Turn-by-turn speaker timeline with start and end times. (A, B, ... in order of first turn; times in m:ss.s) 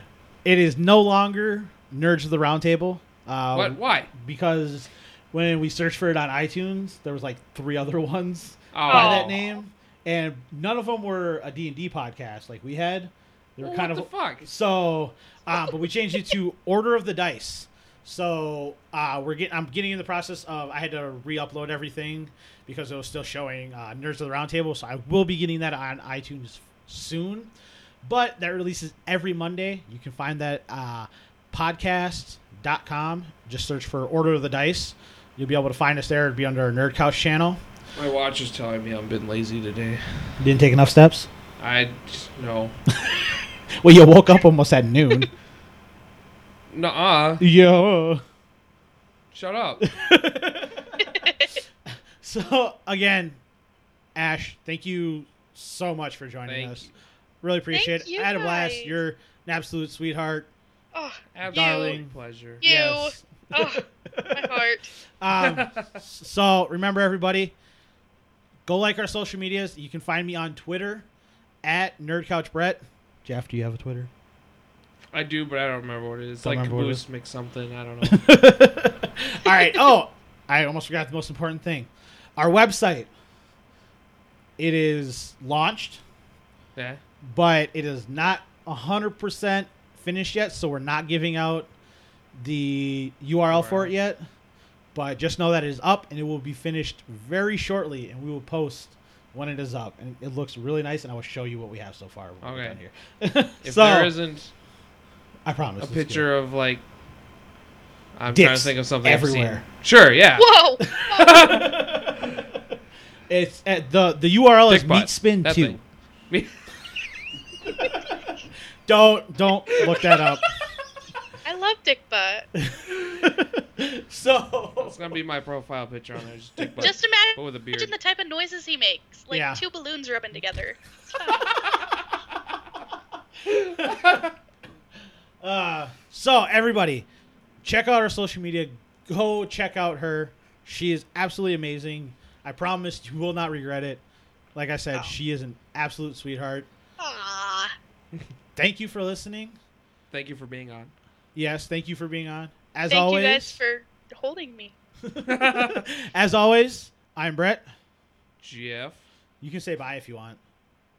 0:00.4-0:27.5 A
0:03.5-0:04.1 B
0:08.7-0:09.4 B
0:08.9-0:09.5 C
0:13.6-0:14.5 B
0:28.0-0:37.6 A
0:38.0-0:40.4 B
0:40.4-0:41.3 A
0:41.6-0:42.8 B
0:43.8-0:45.3 A
0:46.7-0:47.4 B
0:47.4-0:48.2 A
0:49.3-0:49.8 B
0:49.8-0:51.0 A
0:51.0-0:51.6 C
0:51.9-0:53.4 A
0:54.2-0:56.9 A
0:56.5-0:56.9 B
0:57.4-1:00.5 A
0:57.7-0:59.0 C
1:00.9-1:02.0 C
1:01.3-1:02.6 B
1:01.4-1:04.6 A
1:02.6-1:04.9 C
1:05.2-1:07.6 A
1:05.3-1:06.0 B
1:08.7-1:11.1 A
1:11.6-1:14.1 A
1:15.1-1:18.2 B
1:16.4-1:17.0 A
1:18.0-1:23.1 A
1:24.6-1:26.0 A
1:26.8-1:27.0 B
1:27.2-1:31.7 A
1:32.4-1:34.2 A
1:33.5-1:33.9 B
1:35.0-1:44.2 A
1:42.4-1:42.8 B
1:43.6-1:44.5 B
1:45.4-1:46.3 A
1:45.8-1:46.9 B
1:48.2-1:50.5 B
1:48.3-1:49.6 A
1:50.4-1:51.6 C
1:50.8-1:52.6 A
1:51.2-1:51.7 B
1:53.3-1:55.8 A
1:54.7-1:56.6 B
1:58.9-2:00.5 A
1:59.9-2:00.2 B
2:01.4-2:02.5 C
2:02.6-2:05.1 A
2:04.8-2:07.9 B
2:06.6-2:06.9 A
2:06.8-2:11.5 C
2:09.3-2:09.6 A
2:13.4-2:14.3 A
2:13.5-2:14.3 B
2:15.4-2:17.1 A
2:17.6-2:24.0 A
2:24.6-2:26.7 A
2:27.0-2:27.8 C
2:28.6-2:29.6 A
2:30.1-2:30.9 B
2:31.4-2:33.6 A
2:32.9-2:34.8 C
2:35.0-2:37.6 A
2:35.3-2:35.8 B
2:38.4-2:39.0 B
2:39.4-2:40.4 A